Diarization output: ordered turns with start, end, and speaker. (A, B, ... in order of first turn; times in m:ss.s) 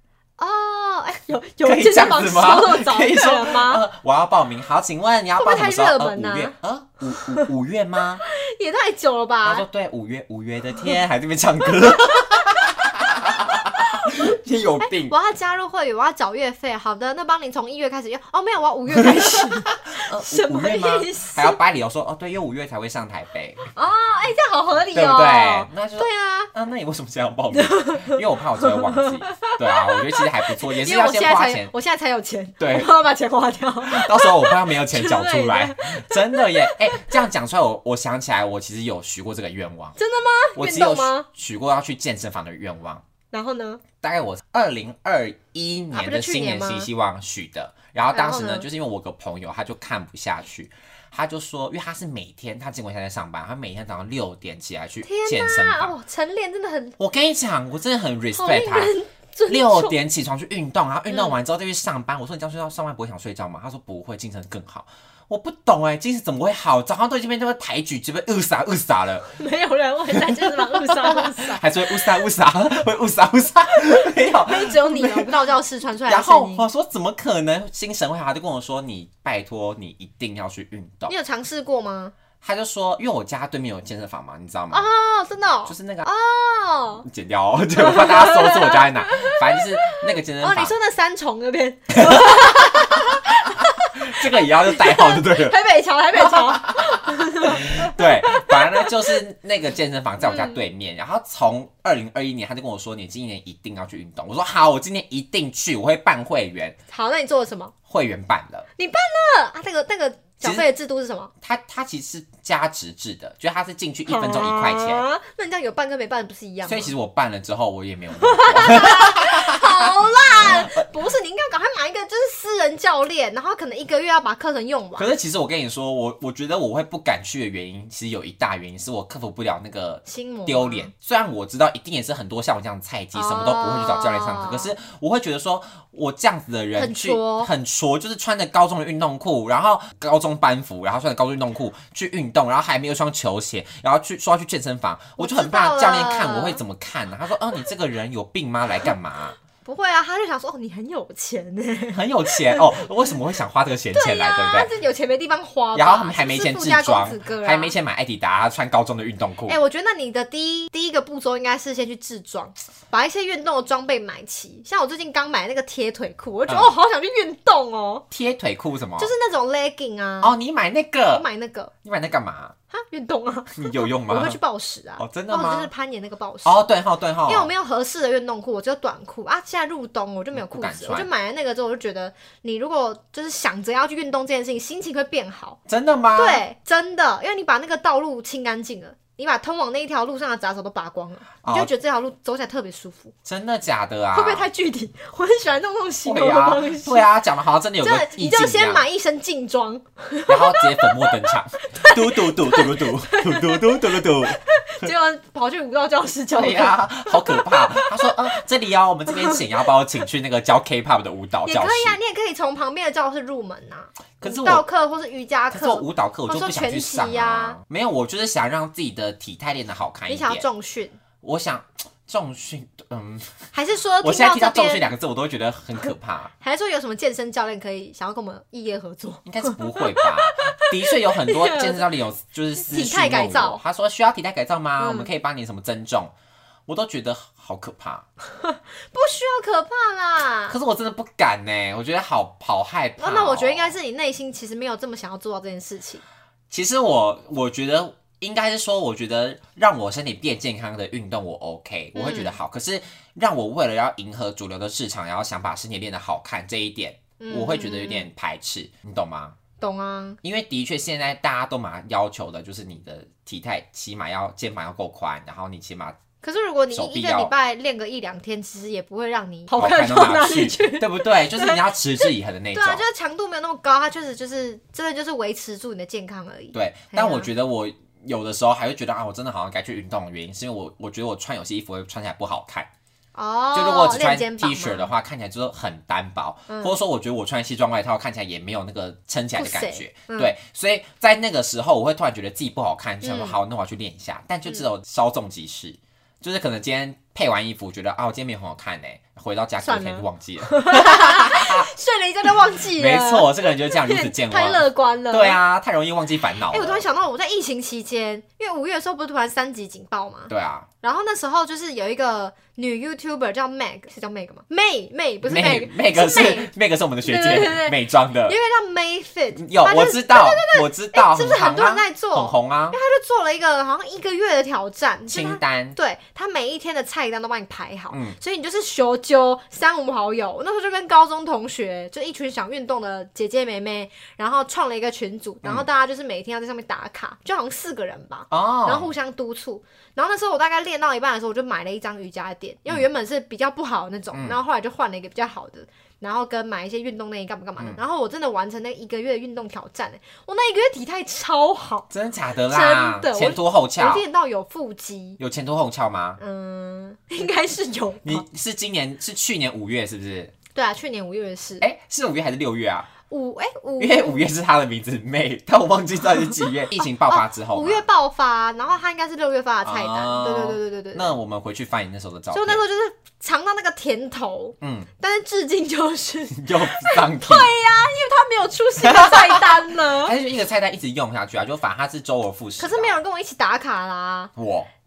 0:00.4-0:03.8 A
0:01.6-0:08.2 B
0:05.4-0:06.5 A
0:07.1-0:07.5 A
0:08.3-0:09.6 A
0:09.4-0:15.1 B
0:13.9-0:14.3 A
0:14.8-0:21.6 A
0:18.9-0:23.6 B
0:23.7-0:26.5 A
0:24.9-0:31.7 B
0:27.5-0:37.2 A
0:32.6-0:32.9 B
0:33.8-0:40.0 B
0:40.0-0:41.3 A
0:40.5-0:43.0 B
0:43.3-0:43.8 A
0:44.0-0:55.9 B
0:45.9-0:46.9 A
0:48.1-0:48.6 A
0:55.0-0:57.0 A
0:57.0-0:58.9 B
0:58.3-1:00.0 A
0:59.5-1:09.3 B
1:09.4-1:12.0 A
1:10.1-1:15.4 B
1:14.0-1:16.7 A
1:16.0-1:21.1 B
1:21.1-1:22.1 A
1:22.4-1:24.9 B
1:24.7-1:27.1 A
1:25.6-1:26.1 B
1:27.0-1:30.7 B
1:27.8-1:39.1 A
1:31.9-1:33.1 B
1:34.0-1:35.6 B
1:36.2-1:46.8 B
1:40.2-1:40.6 A
1:46.9-1:47.7 A
1:47.9-1:48.7 B
1:48.8-1:51.3 A
1:51.4-1:55.0 B
1:54.1-1:56.9 A
1:56.6-2:00.8 B
1:58.2-2:05.1 A
2:05.0-2:29.4 B
2:10.0-2:10.9 A
2:13.1-2:14.7 A
2:16.8-2:17.5 A
2:25.2-2:26.6 A
2:29.6-2:32.9 A
2:31.9-2:34.7 B
2:33.9-2:37.7 A
2:35.7-2:39.6 B
2:39.5-2:48.0 A
2:46.5-2:46.7 B
2:48.1-2:49.1 B
2:49.0-2:50.3 A
2:50.2-2:51.2 B
2:51.1-2:51.7 A
2:51.8-2:52.5 B
2:52.7-2:56.6 A
2:53.5-2:54.4 B
2:55.0-2:55.7 B
2:56.4-2:57.5 B
2:57.3-3:05.6 A
3:00.3-3:01.1 B
3:05.7-3:06.4 B
3:06.2-3:13.1 A
3:11.4-3:11.7 B
3:13.2-3:14.5 B
3:14.1-3:17.1 A
3:16.0-3:18.8 B
3:17.8-3:28.2 A
3:20.3-3:24.9 B
3:26.3-3:32.0 B
3:29.1-3:29.4 A
3:31.4-3:37.6 A
3:34.2-3:34.6 B
3:35.5-3:40.4 B
3:40.1-3:41.0 A
3:41.2-3:43.5 B
3:43.5-3:44.9 A
3:44.0-3:46.3 B
3:46.4-3:51.9 A
3:49.2-3:56.1 B
3:52.6-3:53.6 A
3:54.8-3:55.1 A
3:56.7-3:58.0 B
3:58.3-4:00.6 A
4:00.5-4:03.8 B
4:03.0-4:06.0 A
4:06.5-4:19.4 B
4:11.9-4:12.4 A
4:17.2-4:18.1 A
4:19.6-4:20.2 A
4:20.2-4:26.0 B
4:26.2-4:37.3 A
4:26.7-4:27.3 B
4:29.5-4:32.8 B
4:36.5-4:42.7 B
4:43.1-4:44.9 A
4:43.5-5:01.7 B
4:46.5-4:46.8 A
4:49.4-4:50.3 A
4:53.0-4:53.4 A
4:59.6-5:05.4 A
5:02.7-5:06.8 B
5:06.5-5:16.5 A
5:10.3-5:10.7 B
5:15.2-5:18.4 B
5:17.0-5:51.9 A
5:19.3-5:22.8 B
5:25.1-5:25.8 B
5:27.9-5:28.2 B
5:38.3-5:38.9 B
5:51.9-5:54.0 B
5:52.5-5:55.2 A
5:55.2-5:56.2 B
5:56.2-5:58.2 A
5:58.0-6:00.3 B
6:00.5-6:01.6 A
6:01.6-6:02.9 B
6:03.1-6:04.2 A
6:03.8-6:07.8 B
6:07.0-6:11.2 A
6:09.6-6:12.6 B
6:12.3-6:20.1 A
6:14.6-6:14.9 B
6:16.3-6:17.5 B
6:18.8-6:23.0 B
6:22.6-6:24.3 A
6:24.4-6:24.7 B